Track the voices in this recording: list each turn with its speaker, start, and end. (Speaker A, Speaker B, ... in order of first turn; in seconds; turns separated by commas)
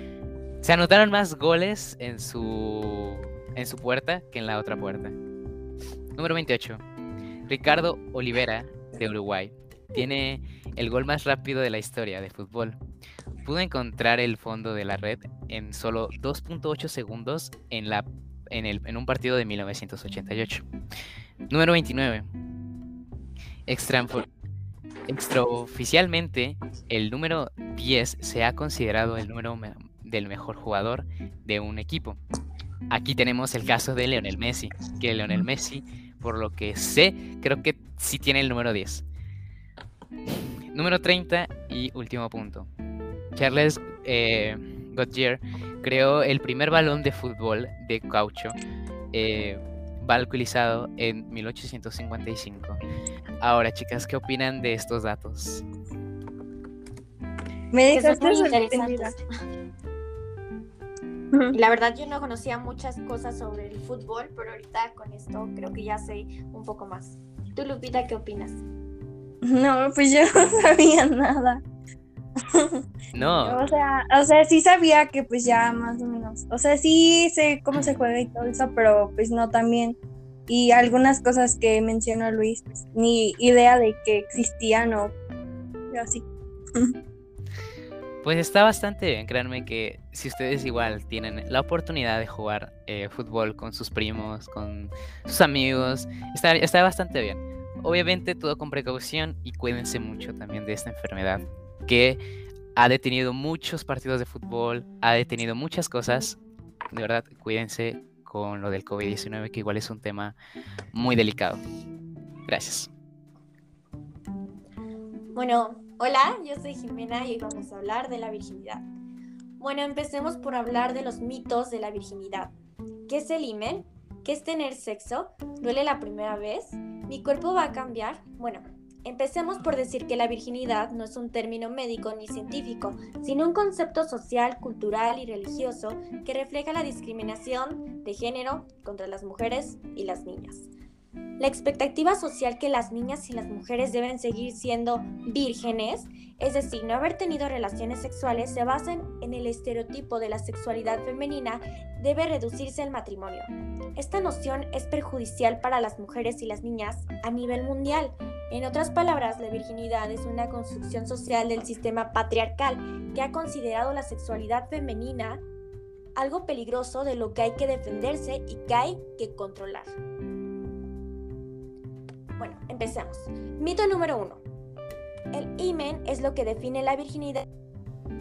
Speaker A: 0.6-5.2, Speaker A: 6.2-6.8, Speaker A: 7.5-12.8, Speaker A: 13.4-20.6, Speaker A: 21.5-22.3, Speaker A: 23.7-24.3, Speaker A: 25.1-32.2, Speaker A: 32.9-39.0, Speaker A: 40.3-42.7, Speaker A: 43.3-48.5, Speaker A: 49.1-52.8, Speaker A: 53.4-55.6, Speaker B: 57.7-59.1, Speaker C: 57.9-59.2, Speaker C: 61.5-68.6, Speaker B: 69.4-71.6, Speaker B: 72.5-72.8, Speaker A: 73.1-73.6, Speaker B: 73.4-80.0, Speaker B: 80.5-85.1, Speaker B: 85.9-86.9, Speaker A: 88.2-102.2, Speaker A: 102.8-106.4, Speaker A: 106.9-110.3, Speaker A: 110.9-111.6, Speaker A: 112.5-112.9, Speaker C: 115.3-118.8, Speaker C: 119.6-122.5, Speaker C: 123.1-140.7, Speaker C: 141.4-165.4, Speaker C: 166.2-169.9, Speaker C: 172.4-174.4, Speaker C: 175.3-177.4